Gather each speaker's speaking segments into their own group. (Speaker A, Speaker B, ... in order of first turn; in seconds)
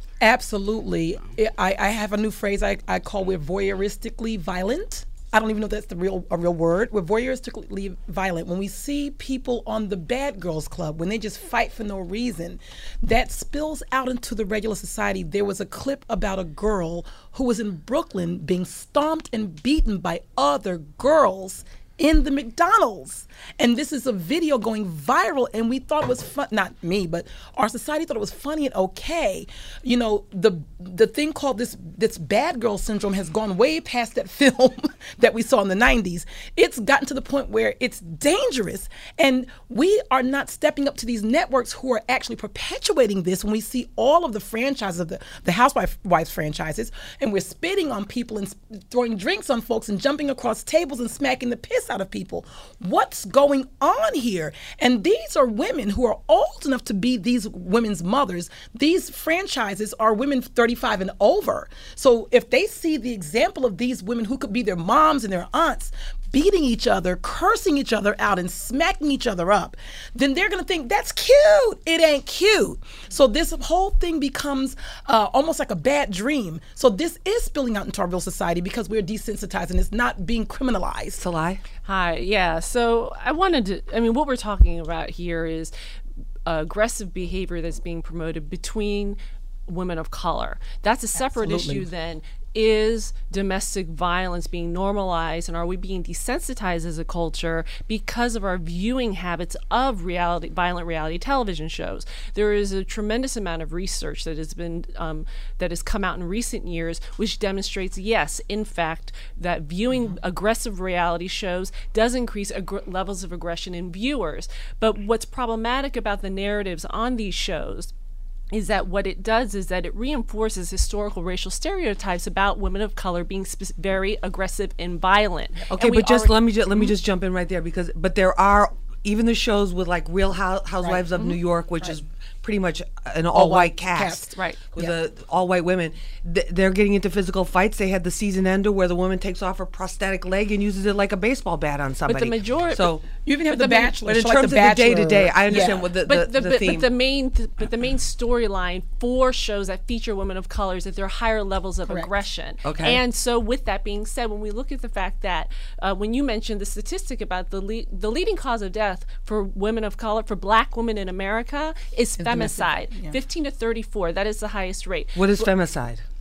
Speaker A: 0.2-81.2, 91.2-91.9, 109.9-110.2, 130.8-131.1, 133.3-134.9, 143.2-145.9, 151.9-152.1, 162.2-163.2
Speaker B: 81.2-81.6, 125.7-143.1, 144.0-146.9, 152.6-153.0, 165.2-166.0
Speaker C: 81.8-85.7, 86.5-117.9, 118.5-126.9, 134.3-134.6, 142.1-142.9, 143.5-143.9, 145.5-165.5